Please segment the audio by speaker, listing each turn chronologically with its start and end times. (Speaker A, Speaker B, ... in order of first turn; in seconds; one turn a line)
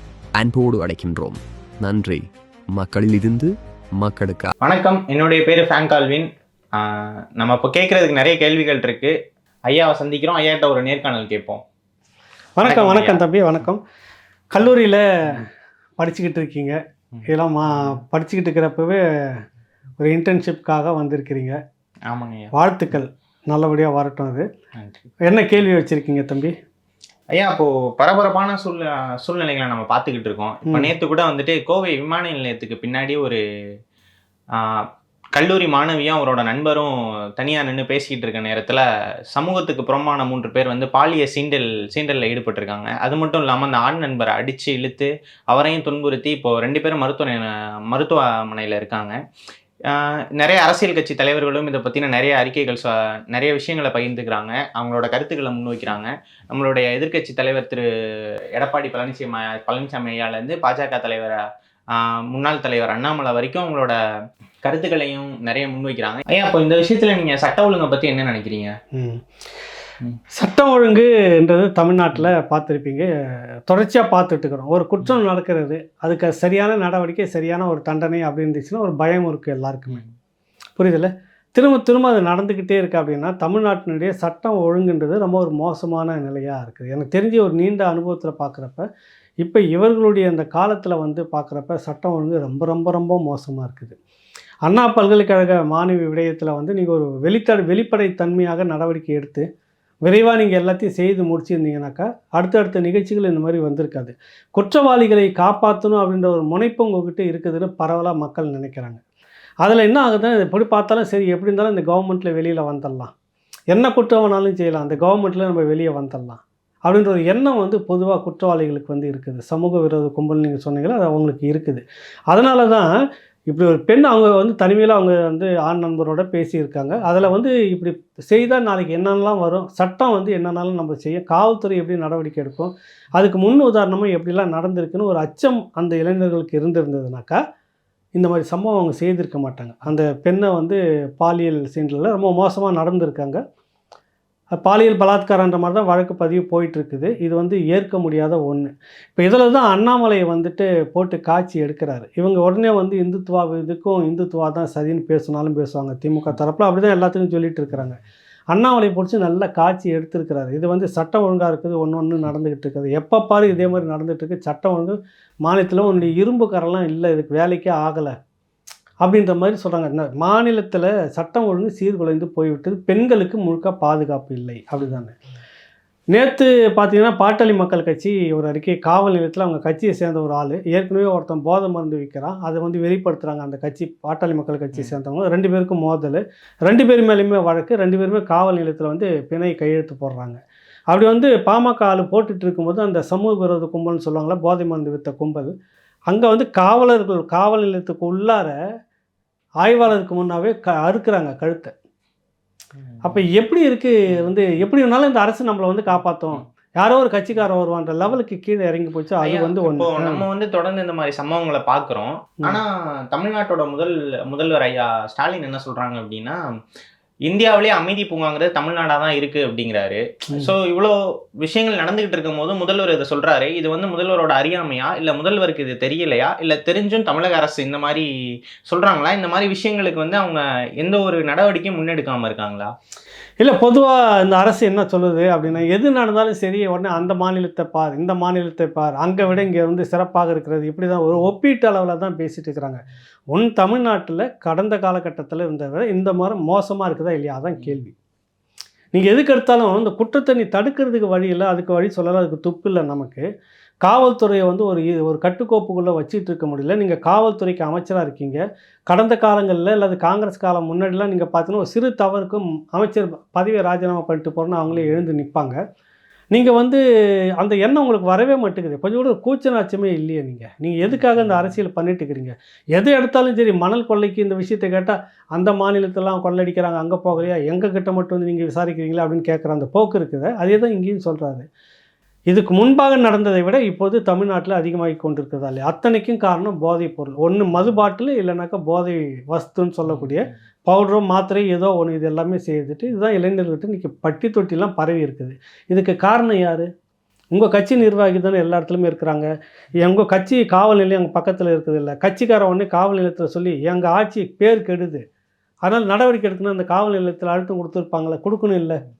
Speaker A: 0.4-4.5
Speaker B: 4.6-9.2
Speaker B: 9.7-11.6
Speaker C: 12.6-13.8
Speaker B: 12.7-13.2
Speaker C: 14.5-15.5
Speaker C: 16.0-19.4
Speaker C: 20.0-21.6
Speaker B: 22.1-22.5
Speaker C: 22.5-24.5
Speaker B: 24.8-25.1
Speaker C: 25.2-26.6
Speaker B: 27.3-33.4
Speaker B: 34.5-34.8
Speaker B: 35.3-49.2
Speaker B: 49.9-57.8
Speaker B: 58.5-61.4
Speaker B: 61.9-64.0
Speaker B: 64.6-68.8
Speaker C: 68.9-69.3
Speaker C: 70.3-80.0
Speaker C: 80.8-88.9
Speaker C: 89.4-94.0
Speaker C: 94.7-99.5
Speaker C: 100.0-109.0
Speaker C: 109.6-113.1
Speaker C: 113.7-122.9
Speaker C: 123.5-137.4
Speaker C: 138.2-143.4
Speaker C: 144.5-158.0
Speaker C: 158.5-168.2
Speaker C: 169.0-175.2
Speaker C: 176.1-195.5
Speaker C: 196.1-198.6
Speaker C: 199.6-201.7
Speaker B: 202.8-203.2
Speaker C: 203.0-210.2
Speaker B: 209.2-216.4
Speaker B: 217.3-228.1
Speaker B: 228.7-232.7
Speaker C: 233.4-247.9
Speaker C: 248.9-253.2
Speaker C: 253.8-265.6
Speaker C: 266.3-266.8
Speaker C: 267.4-281.5
Speaker C: 282.3-296.7
Speaker B: 290.0-290.3
Speaker C: 297.3-305.0
Speaker C: 305.6-308.8